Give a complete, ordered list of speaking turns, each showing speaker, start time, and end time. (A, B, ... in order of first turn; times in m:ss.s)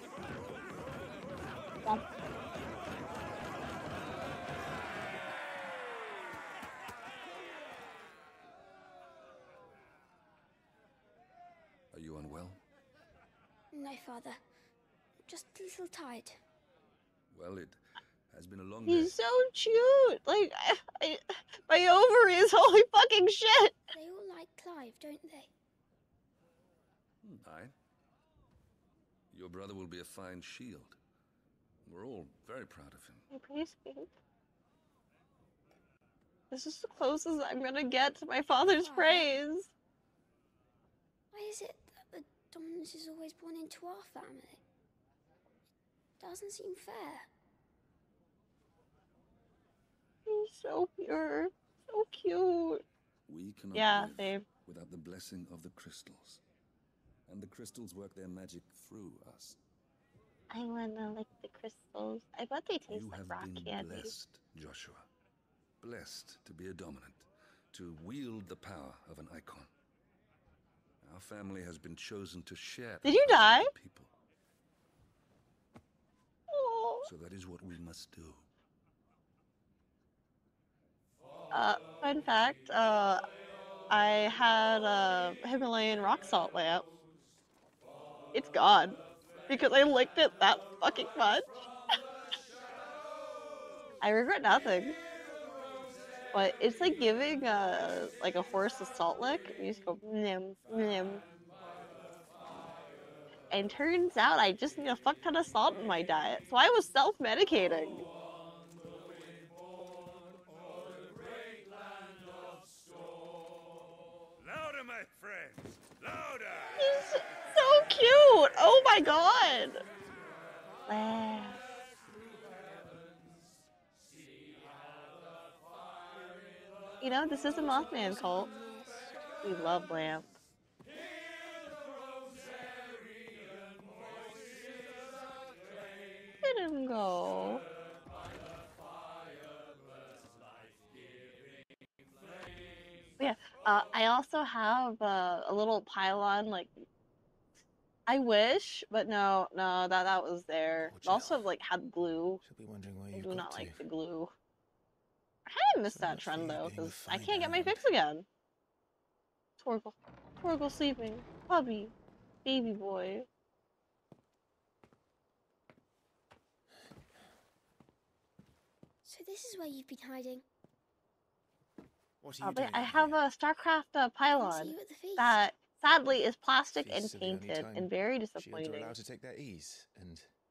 0:11.9-0:12.6 A
0:13.7-0:14.4 B
0:15.2-0:16.4 B
0:17.3-0:19.2 A
0:18.9-0:23.8 C
0:23.9-0:25.5 B
0:27.2-0:27.7 A
0:29.3-0:31.0 A
0:31.9-0:33.3 A
0:33.3-0:34.1 C
0:36.5-0:39.7 C
0:38.7-0:39.4 B
0:41.3-0:44.6 B
0:46.2-0:47.3 B
0:50.3-0:52.8 C
0:53.3-0:56.4 A
0:53.7-0:54.4 C
0:57.3-0:59.6 A
1:00.5-1:04.1 C
1:02.9-1:05.1 A
1:05.8-1:09.7 A
1:11.0-1:14.1 A
1:13.0-1:13.7 C
1:16.5-1:17.1 C
1:17.0-1:18.5 A
1:21.5-1:23.2 C
1:23.9-1:26.9 C
1:28.3-1:31.6 C
1:34.0-1:35.0 C
1:36.3-1:41.2 C
1:43.5-1:48.1 C
1:54.4-1:56.7 D
1:56.8-1:59.8 C
2:00.9-2:01.6 C
2:07.0-2:08.5 C
2:09.4-2:10.3 C
2:16.4-2:17.6 C
2:23.2-2:26.8 C
2:28.1-2:32.4 C
2:30.9-2:31.5 E
2:32.4-2:33.8 E
2:33.1-2:34.3 C
2:35.5-2:38.3 C
2:35.9-2:37.9 E
2:39.6-2:41.9 C
2:42.4-2:43.3 C
2:49.0-2:50.4 B
2:52.2-2:53.2 E
2:52.4-2:58.9 C
2:54.4-2:55.4 B
2:56.8-3:00.3 E